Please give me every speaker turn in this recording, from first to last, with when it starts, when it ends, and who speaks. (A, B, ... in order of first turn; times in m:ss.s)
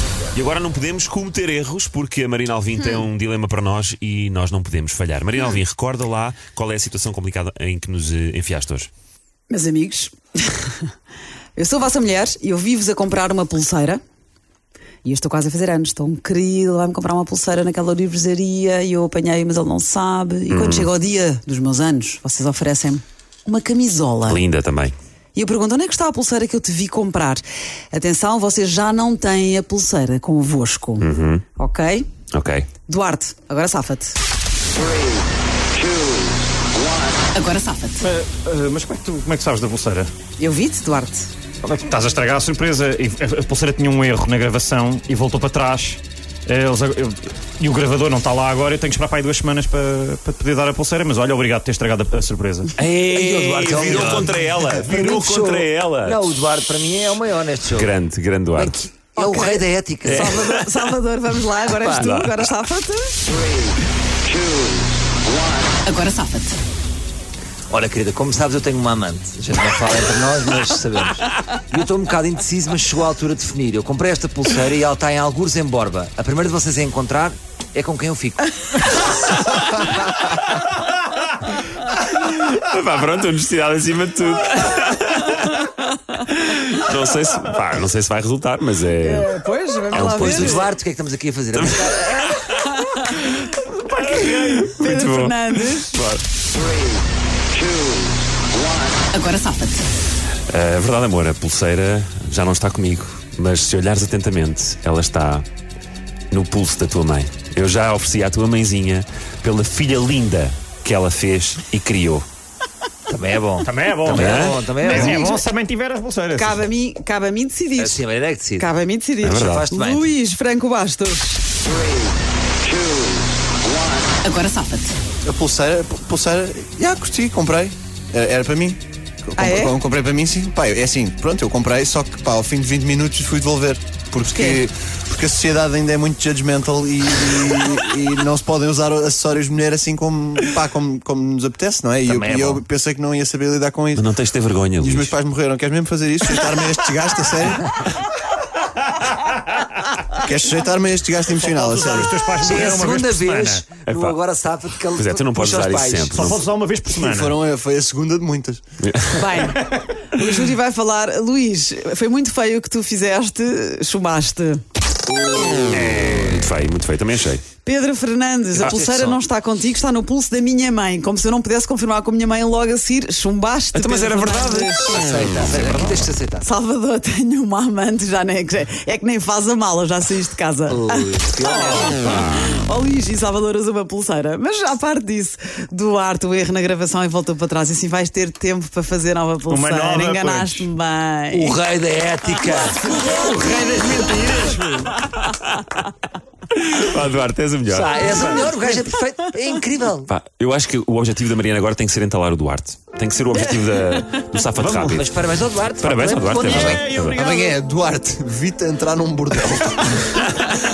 0:00.3-0:08.9 A
0:09.5-0:10.8 B
0:11.6-0:14.0 B
0:15.0-0:24.4 B
0:20.5-0:20.9 A
0:24.3-0:24.9 A
0:25.3-0:32.1 B
0:31.0-0:31.4 A
0:32.3-0:32.7 A
0:32.9-0:34.2 B
0:37.3-0:38.0 B
0:38.0-0:40.1 C
0:40.4-0:41.3 B
0:41.6-0:52.7 C
0:52.8-0:57.9 D
0:53.1-0:56.4 A
0:57.7-0:58.8 A
0:58.6-1:00.4 D
0:59.2-1:03.2 B
1:00.0-1:00.6 A
1:01.8-1:02.3 A
1:05.8-1:06.5 B
1:07.7-1:18.5 D
1:22.0-1:29.3 A
1:29.0-1:30.7 B
1:29.9-1:30.6 A
1:30.0-1:32.1 D
1:32.0-1:32.4 A
1:32.8-1:36.0 B
1:34.2-1:36.2 A
1:39.0-1:39.8 B
1:40.5-1:45.5 A
1:46.3-1:52.2 A
1:53.1-1:55.2 D
1:53.6-1:56.6 C
1:54.1-1:54.8 A
1:54.8-1:55.4 B
1:56.4-1:58.0 B
1:57.8-1:58.6 D
1:58.6-2:01.4 B
1:59.2-1:59.6 A
1:59.3-2:00.1 D
2:04.2-2:04.9 B
2:05.2-2:24.1 E
2:09.4-2:09.7 B
2:14.3-2:14.6 B
2:22.1-2:22.6 D
2:24.0-2:25.1 A
2:24.8-2:27.7 E
2:30.1-2:32.1 E
2:31.4-2:33.7 C
2:32.4-2:36.2 D
2:33.8-2:34.2 A
2:34.9-2:36.4 A
2:36.1-2:37.3 C
2:36.9-2:38.6 E
2:38.8-2:39.3 A
2:39.1-2:44.6 B
2:45.4-2:46.2 D
2:45.7-2:47.4 A
2:47.6-2:54.7 B
2:48.5-2:49.2 D
2:53.7-2:55.9 A
2:54.8-2:56.4 D
2:56.4-3:11.6 B
3:00.7-3:02.0 D
3:09.5-3:10.7 C
3:11.3-3:14.8 D
3:13.6-3:14.9 C
3:15.2-3:15.6 A
3:16.5-3:18.0 A
3:17.7-3:20.1 D
3:20.1-3:25.1 A
3:24.6-3:26.8 D
3:25.8-3:27.2 A
3:26.4-3:27.5 C
3:26.6-3:30.3 E